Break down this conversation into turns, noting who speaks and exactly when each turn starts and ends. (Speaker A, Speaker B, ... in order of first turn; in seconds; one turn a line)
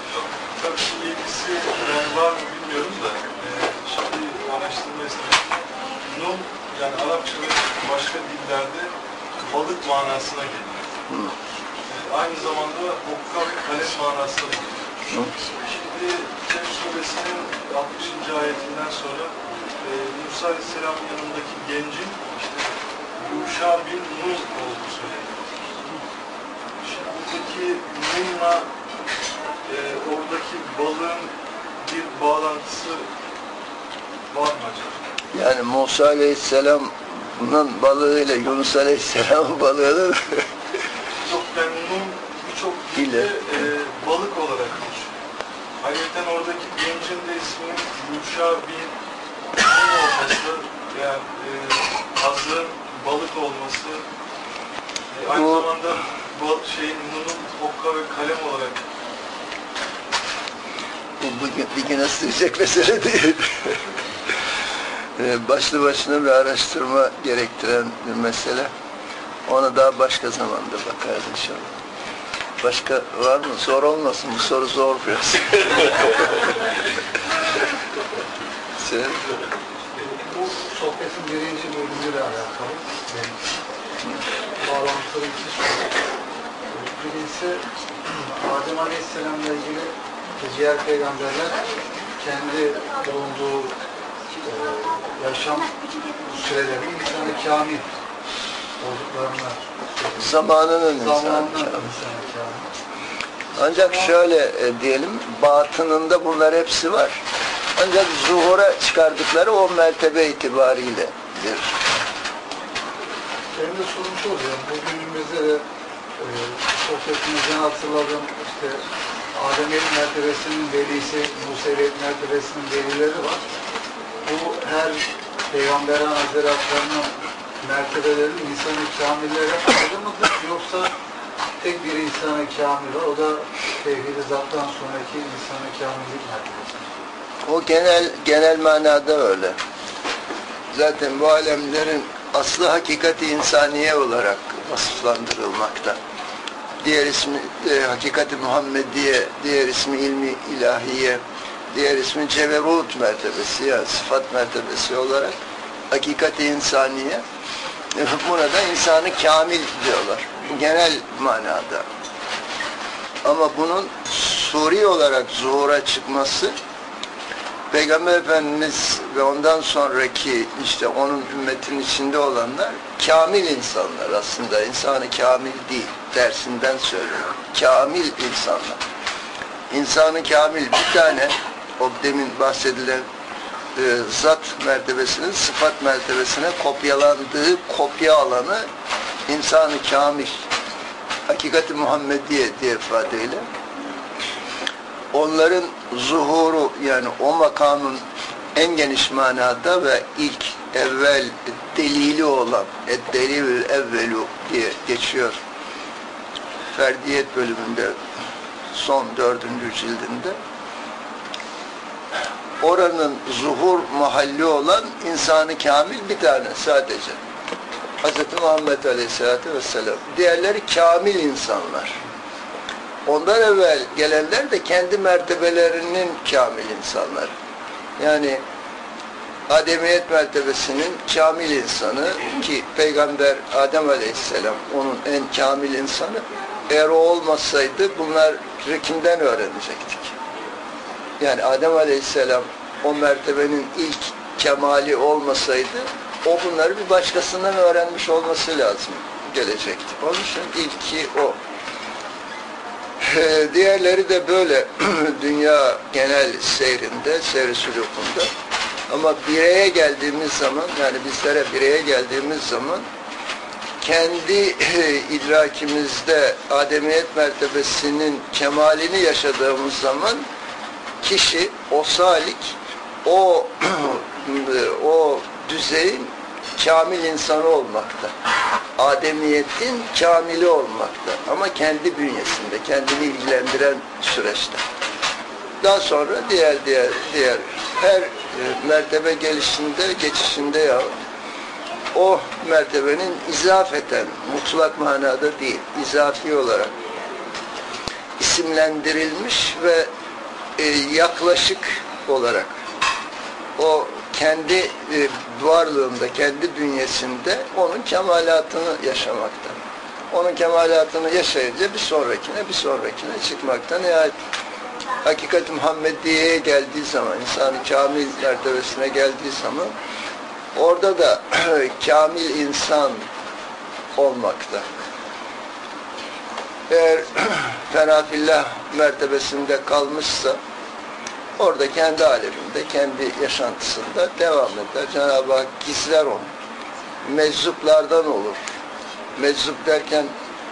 Speaker A: 0.6-5.5
Speaker A: 6.0-8.9
Speaker A: 9.4-10.8
Speaker B: 11.1-11.3
Speaker A: 11.9-14.8
Speaker A: 15.4-22.6
Speaker A: 23.2-25.4
Speaker A: 26.8-28.7
Speaker A: 29.7-31.3
Speaker A: 31.8-33.0
Speaker A: 34.3-35.0
Speaker B: 35.3-40.5
Speaker A: 41.2-45.1
Speaker B: 43.0-43.3
Speaker A: 45.8-48.9
Speaker A: 49.6-54.0
Speaker A: 55.1-58.8
Speaker B: 55.3-55.7
Speaker B: 61.2-63.8
Speaker B: 65.2-68.7
Speaker B: 69.5-71.7
Speaker B: 72.6-76.5
Speaker B: 78.8-79.2
Speaker C: 80.0-83.4
Speaker C: 84.6-85.9
Speaker C: 86.7-91.7
Speaker C: 92.2-93.8
Speaker C: 94.4-97.9
Speaker C: 98.8-100.3
Speaker B: 100.2-101.8
Speaker C: 101.0-102.7
Speaker B: 103.6-107.2
Speaker B: 107.8-111.8
Speaker C: 113.5-115.6
Speaker C: 116.2-118.8
Speaker C: 119.3-123.4
Speaker C: 124.2-130.9
Speaker C: 131.6-136.9
Speaker B: 137.4-139.6
Speaker B: 140.7-146.0
Speaker B: 146.8-155.3
Speaker B: 155.9-157.2
Speaker B: 157.9-161.9
Speaker B: 163.2-166.5
Speaker B: 167.7-178.8
Speaker B: 179.7-183.1
Speaker B: 183.8-188.7
Speaker B: 189.3-190.4
Speaker B: 191.3-193.5
Speaker B: 195.1-198.0
Speaker B: 198.6-205.4
Speaker B: 206.8-208.0
Speaker B: 208.7-210.4
Speaker B: 212.6-217.2
Speaker B: 218.0-222.0
Speaker B: 223.1-227.3
Speaker B: 228.0-228.4
Speaker B: 229.5-240.2
Speaker B: 241.2-251.4
Speaker B: 253.0-258.3
Speaker B: 258.9-262.9
Speaker B: 263.8-270.3
Speaker B: 271.0-278.1
Speaker B: 278.8-284.6
Speaker B: 285.6-290.9
Speaker B: 291.9-296.8
Speaker B: 298.2-299.9
Speaker B: 300.6-302.6
Speaker B: 303.6-309.6
Speaker B: 310.1-314.1
Speaker B: 315.0-319.7
Speaker B: 320.6-323.1
Speaker B: 324.0-324.8
Speaker B: 326.7-330.4
Speaker B: 331.4-336.3
Speaker B: 337.0-338.4
Speaker B: 339.2-340.1